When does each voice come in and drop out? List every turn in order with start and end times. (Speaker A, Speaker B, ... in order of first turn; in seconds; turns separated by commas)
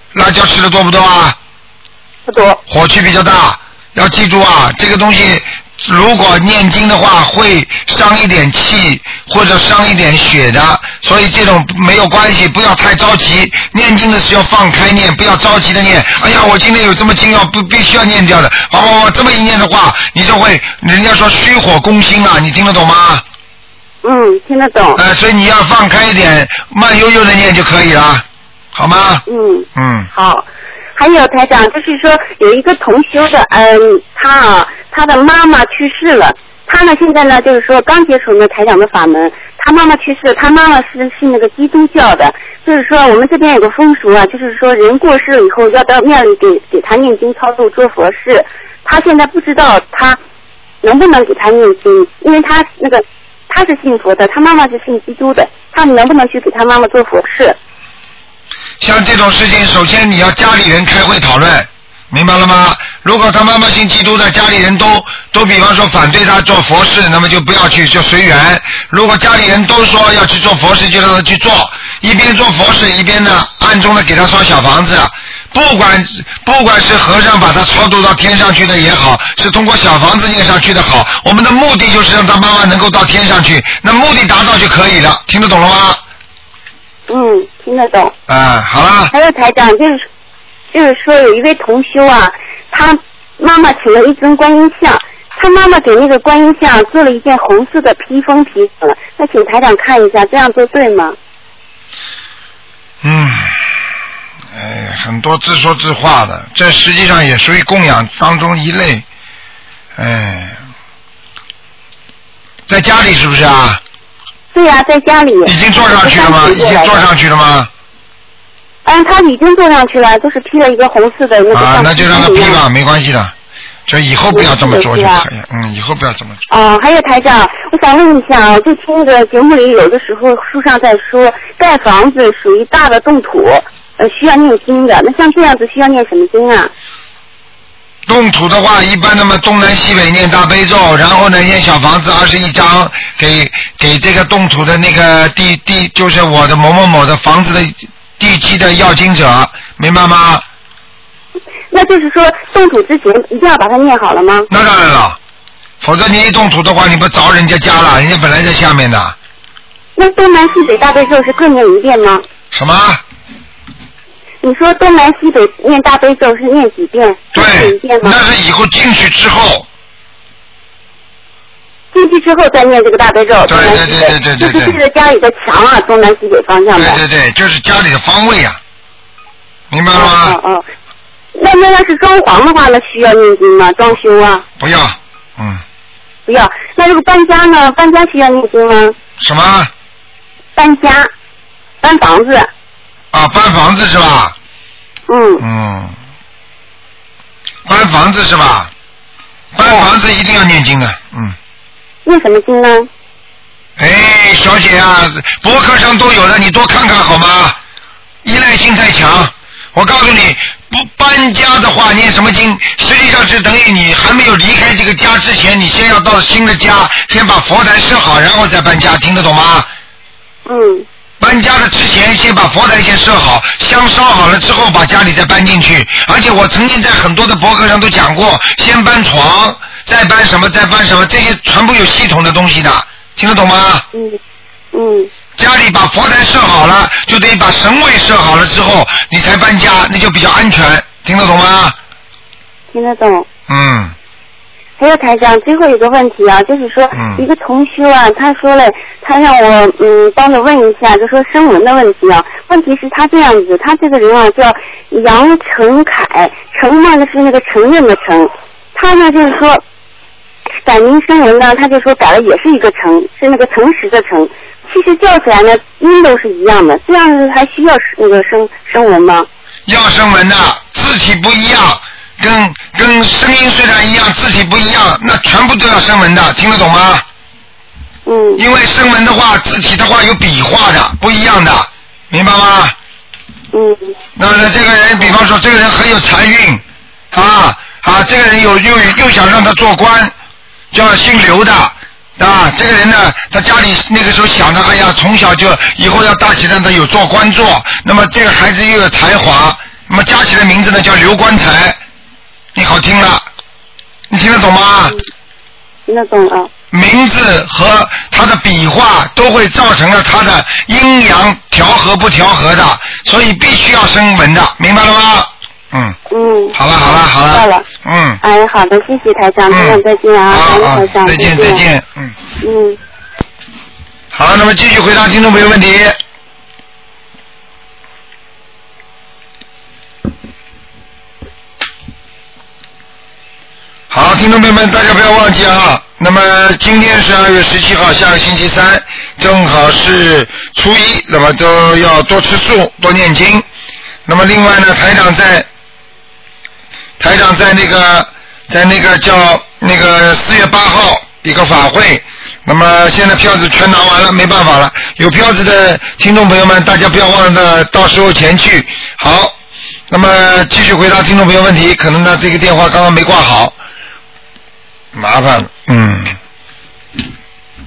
Speaker A: 0.1-1.4, Speaker B: 2.3-2.6, Speaker A: 2.7-23.2, Speaker B: 24.0-25.0, Speaker A: 25.0-29.2, Speaker B: 29.3-50.2, Speaker A: 29.8-30.1, Speaker B: 50.8-57.6, Speaker A: 58.8-86.0, Speaker B: 87.1-88.1, Speaker A: 88.3-89.1, Speaker B: 89.1-90.1, Speaker B: 90.7-101.2, Speaker A: 103.0-103.6, Speaker A: 104.5-109.0, Speaker A: 110.0-110.6, Speaker A: 112.7-113.8, Speaker B: 114.5-117.1, Speaker A: 115.5-117.7, Speaker B: 118.8-122.6, Speaker A: 121.5-123.3, Speaker A: 123.9-126.4, Speaker B: 124.3-125.3, Speaker B: 126.5-136.7, Speaker A: 138.1-150.4, Speaker B: 151.7-154.5, Speaker A: 154.5-155.2, Speaker A: 155.8-159.2, Speaker B: 160.0-162.2, Speaker A: 162.5-163.0, Speaker B: 164.4-168.2, Speaker A: 167.3-169.7, Speaker B: 171.9-177.0, Speaker A: 173.5-174.8, Speaker A: 176.8-178.6, Speaker A: 179.7-180.4, Speaker B: 179.9-180.6, Speaker B: 181.3-184.4, Speaker A: 184.6-185.6, Speaker B: 186.3-189.0, Speaker A: 189.2-189.7, Speaker B: 190.6-191.1, Speaker B: 191.8-192.5, Speaker A: 193.1-194.3, Speaker B: 195.1-195.4, Speaker A: 195.4-195.9, Speaker A: 197.7-198.7, Speaker A: 199.5-201.4, Speaker B: 199.6-199.9, Speaker B: 202.1-202.9, Speaker A: 203.8-207.6, Speaker A: 208.2-219.7, Speaker B: 220.5-220.9, Speaker A: 221.2-233.8, Speaker B: 233.9-234.2, Speaker B: 234.7-235.1, Speaker A: 235.4-241.8, Speaker B: 242.7-243.3, Speaker A: 243.5-243.9, Speaker B: 244.8-259.6, Speaker A: 246.9-247.2, Speaker B: 260.6-269.3, Speaker A: 269.7-277.0, Speaker B: 278.1-278.4, Speaker A: 278.4-282.8, Speaker B: 283.5-284.0, Speaker A: 284.2-290.1, Speaker A: 290.7-301.8, Speaker A: 302.6-303.2, Speaker A: 304.1-305.0, Speaker B: 305.9-306.5, Speaker A: 306.7-316.0, Speaker B: 316.1-316.6, Speaker A: 316.6-318.2, Speaker B: 317.2-317.7, Speaker B: 318.2-321.6, Speaker A: 319.5-322.2, Speaker B: 322.4-322.8, Speaker A: 324.1-326.0, Speaker A: 333.9-343.4, Speaker A: 344.1-345.5, Speaker A: 347.0-359.4, Speaker A: 359.9-363.6, Speaker A: 364.9-366.2